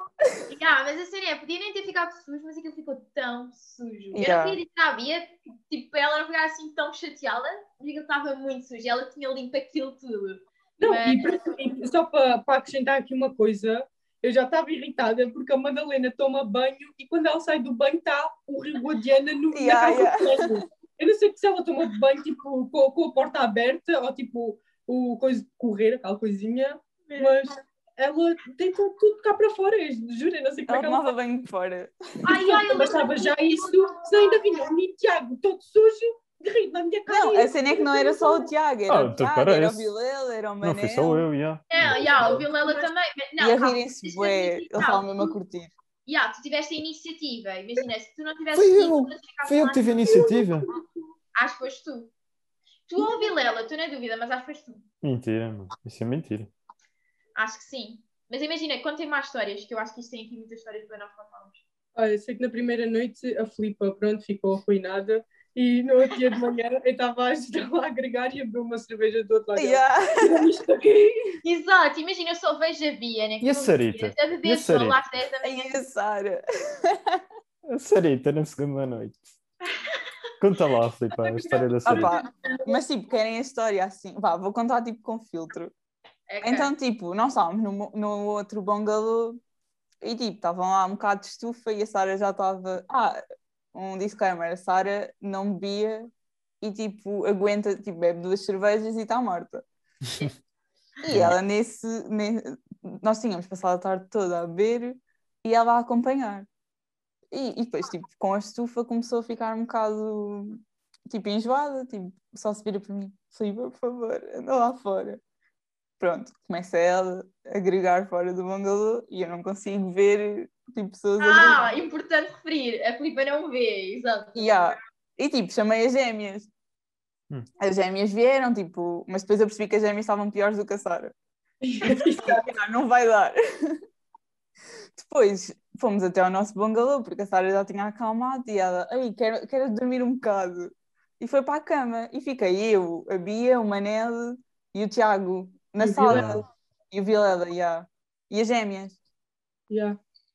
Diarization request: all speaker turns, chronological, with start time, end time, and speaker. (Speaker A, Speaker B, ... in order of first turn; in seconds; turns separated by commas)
Speaker A: 0.5-11.3, Speaker B: 4.1-4.6, Speaker C: 10.8-31.1, Speaker B: 19.5-20.6, Speaker A: 27.1-27.3, Speaker B: 30.7-31.9, Speaker A: 32.2-34.0, Speaker C: 32.3-38.5, Speaker B: 37.1-41.3, Speaker D: 38.9-39.9, Speaker D: 40.6-42.5, Speaker A: 41.7-45.4, Speaker C: 42.2-42.8, Speaker B: 43.4-45.7, Speaker A: 46.1-50.3, Speaker D: 48.5-50.7, Speaker C: 50.1-50.4, Speaker A: 51.4-52.1, Speaker A: 52.9-54.9, Speaker D: 55.0-56.5, Speaker A: 57.4-61.6, Speaker C: 62.0-71.4, Speaker B: 69.5-70.5, Speaker A: 71.4-75.8, Speaker D: 73.4-75.0, Speaker B: 75.4-77.2, Speaker D: 77.7-79.3, Speaker D: 80.4-82.1, Speaker B: 81.8-85.7, Speaker A: 86.3-86.7, Speaker B: 86.4-89.4, Speaker B: 90.0-93.2, Speaker B: 93.7-96.1, Speaker B: 96.6-99.6, Speaker B: 101.0-106.5, Speaker D: 101.1-101.4, Speaker B: 107.3-115.2, Speaker B: 116.0-121.7, Speaker A: 121.2-124.8, Speaker B: 124.3-126.5, Speaker B: 127.6-131.1, Speaker C: 131.6-132.5, Speaker B: 131.8-133.8, Speaker B: 135.0-149.0, Speaker C: 145.8-146.4, Speaker D: 146.1-146.4, Speaker C: 149.7-150.0